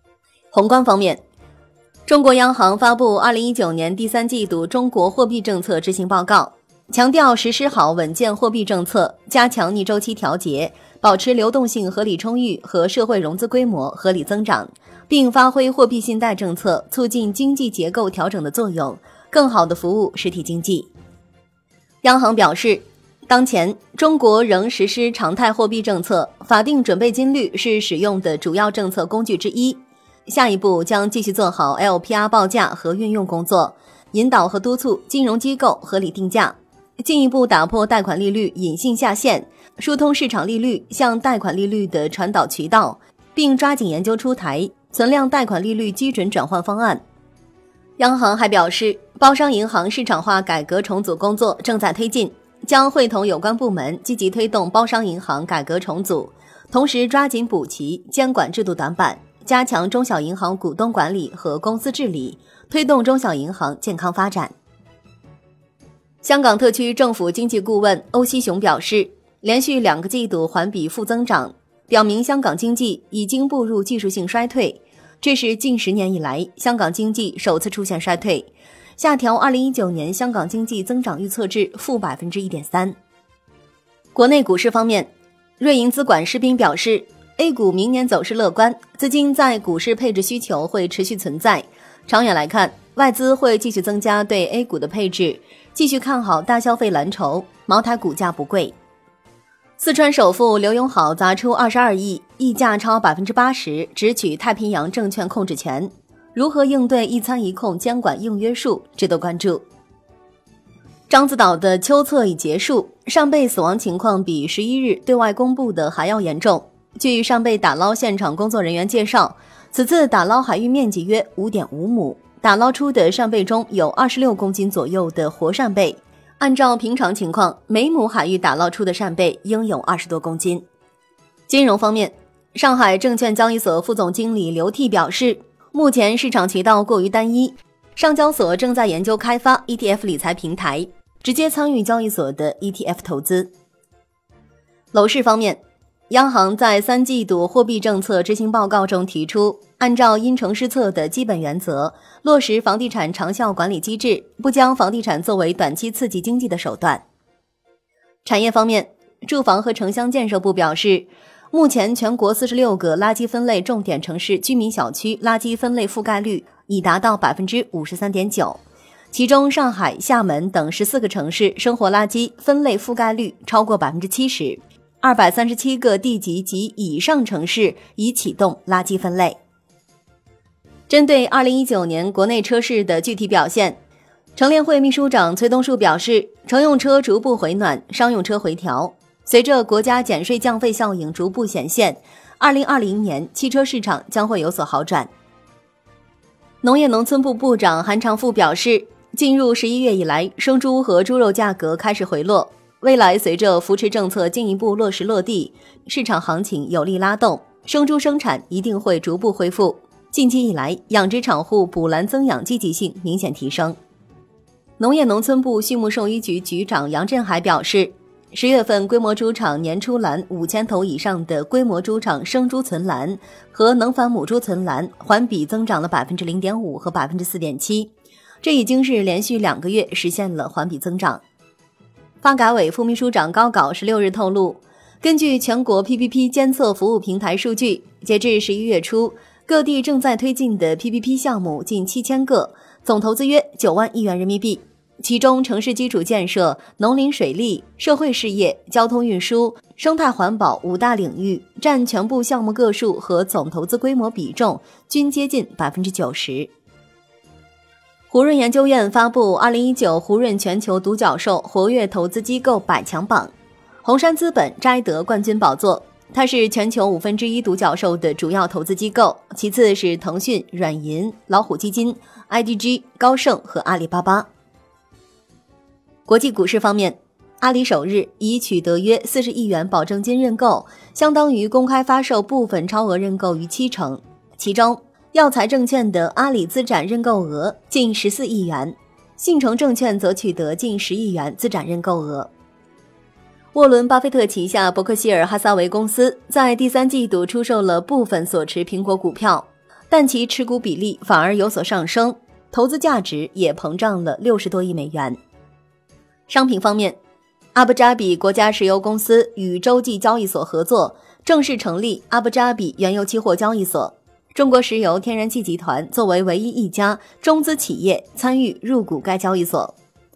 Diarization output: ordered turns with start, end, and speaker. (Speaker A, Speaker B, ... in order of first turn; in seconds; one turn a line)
Speaker A: 0.5-1.2
Speaker A: 2.0-20.9
Speaker A: 22.0-47.0
Speaker A: 48.0-64.5
Speaker A: 66.2-83.0
Speaker A: 84.1-98.7
Speaker A: 99.8-109.6
Speaker A: 111.1-130.7
Speaker A: 131.5-143.5
Speaker A: 144.9-157.0
Speaker A: 158.2-179.4
Speaker A: 180.9-183.8
Speaker A: 184.3-195.1
Speaker A: 196.6-213.8
Speaker A: 214.8-231.2
Speaker A: 232.2-256.5
Speaker A: 258.1-263.3
Speaker A: 263.8-274.3
Speaker A: 276.1-292.3
Speaker A: 293.5-305.2
Speaker A: 306.3-307.0
Speaker A: 307.5-319.7